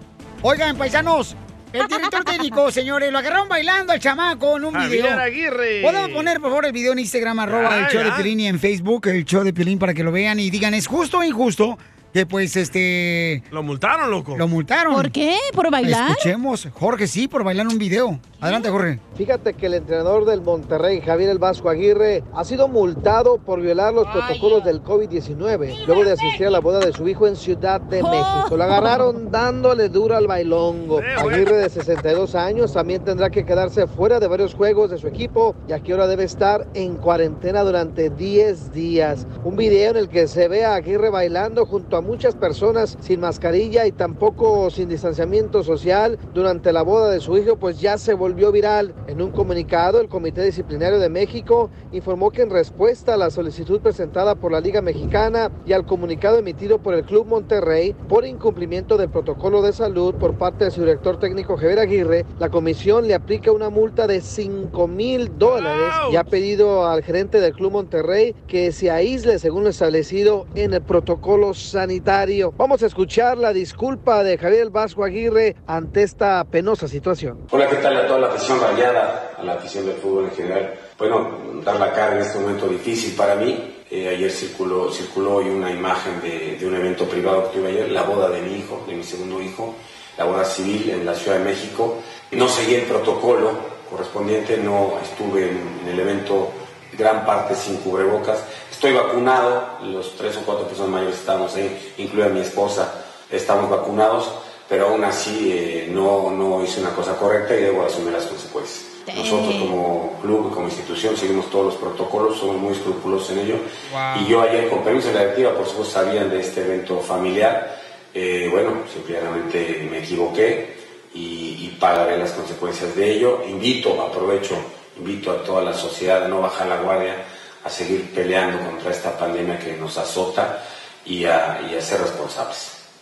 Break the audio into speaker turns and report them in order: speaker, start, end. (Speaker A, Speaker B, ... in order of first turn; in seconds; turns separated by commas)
Speaker A: 0.4-5.2, Speaker B: 1.8-2.5, Speaker C: 4.7-6.3, Speaker A: 5.8-13.4, Speaker C: 7.5-8.3, Speaker C: 13.5-14.4, Speaker A: 14.3-15.1, Speaker B: 14.9-16.3, Speaker A: 15.8-19.0, Speaker B: 18.4-18.7, Speaker D: 19.1-77.4, Speaker A: 24.1-24.6, Speaker A: 25.7-26.4, Speaker B: 28.0-29.1, Speaker C: 30.9-31.5, Speaker C: 65.4-66.2, Speaker E: 77.5-132.8, Speaker B: 109.0-109.7, Speaker A: 113.9-114.3